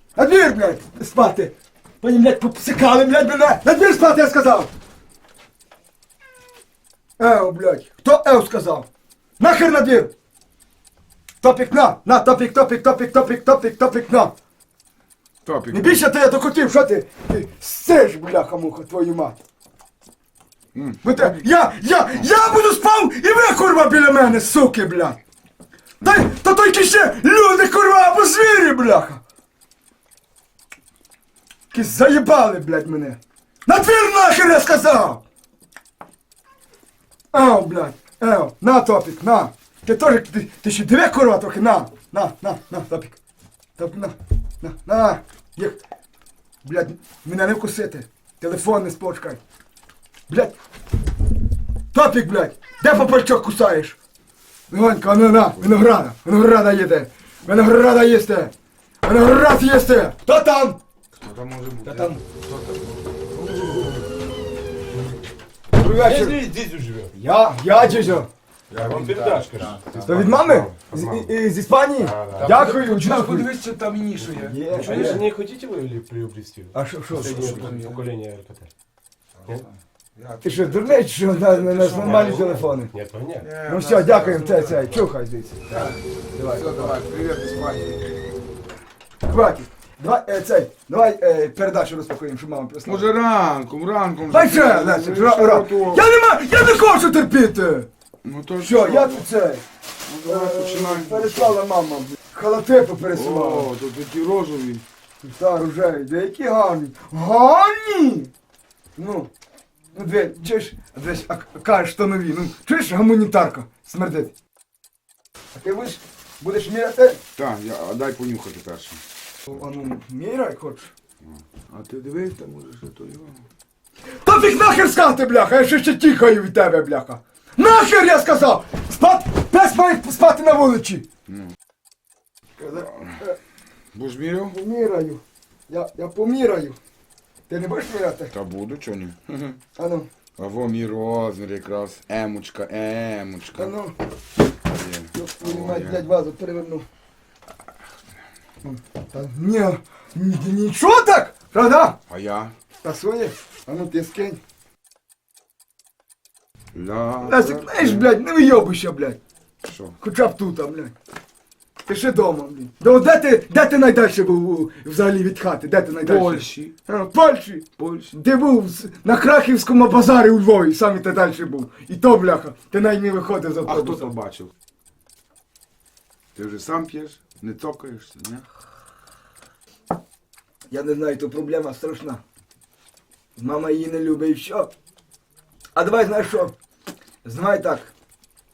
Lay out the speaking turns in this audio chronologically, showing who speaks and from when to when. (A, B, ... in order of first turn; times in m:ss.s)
0:00.2-0:04.7 A
0:07.2-0:08.9 A
0:09.4-0:10.1 A
0:11.4-0:14.3 A
0:15.4-0:16.0 B
0:15.7-0:19.4 A
0:20.7-0:21.4 B
0:21.0-0:25.2 A
0:26.0-0:29.2 A
0:31.7-0:35.2 A
0:37.3-0:43.2 A
0:43.8-0:45.8 A
0:46.6-0:49.4 A
0:50.3-0:50.6 A
0:51.9-0:54.0 A
0:54.7-0:58.5 A
0:59.0-1:00.8 A
1:01.2-1:03.0 B
1:01.8-1:02.2 A
1:05.7-1:06.4 A
1:05.8-1:07.1 C
1:07.1-1:08.3 A
1:08.7-1:10.3 B
1:08.8-1:11.3 C
1:10.0-1:13.5 A
1:12.0-1:12.6 C
1:12.3-1:15.3 B
1:14.4-1:15.3 A
1:14.7-1:18.7 C
1:16.7-1:17.6 A
1:17.1-1:18.1 B
1:19.4-1:22.5 B
1:20.4-1:22.9 A
1:21.9-1:23.5 C
1:23.4-1:24.9 B
1:23.6-1:25.8 A
1:25.7-1:26.0 B
1:26.3-1:27.0 A
1:26.5-1:28.0 B
1:29.2-1:33.1 A
1:32.8-1:36.1 B
1:34.3-1:37.9 A
1:38.2-1:39.3 B
1:38.6-1:39.6 A
1:40.1-1:41.6 B
1:40.2-1:43.7 A
1:43.1-1:44.8 B
1:45.3-1:48.3 A
1:49.0-1:49.3 A
1:49.9-1:54.3 A
1:55.6-1:57.2 A
1:57.4-1:59.0 B
1:59.5-2:00.9 A
2:01.3-2:03.4 B
2:04.2-2:11.1 A
2:12.6-2:13.4 A
2:13.9-2:14.6 B
2:14.5-2:16.8 A
2:17.5-2:18.3 A
2:18.3-2:19.6 B
2:19.8-2:20.1 A
2:20.4-2:23.7 B
2:23.6-2:24.0 A
2:24.7-2:26.1 B
2:25.1-2:26.9 A
2:28.6-2:32.0 A
2:32.1-2:32.5 B
2:32.8-2:34.4 A
2:36.7-2:38.1 B
2:37.2-2:39.2 A
2:39.6-2:40.0 B
2:40.0-2:40.9 A
2:41.9-2:54.1 A
2:46.0-2:46.8 B
2:47.8-2:48.2 B
2:53.7-2:54.5 B
2:56.4-2:58.4 B
3:00.7-3:02.2 A
3:03.4-3:04.7 A
3:05.8-3:06.5 A
3:07.2-3:07.9 A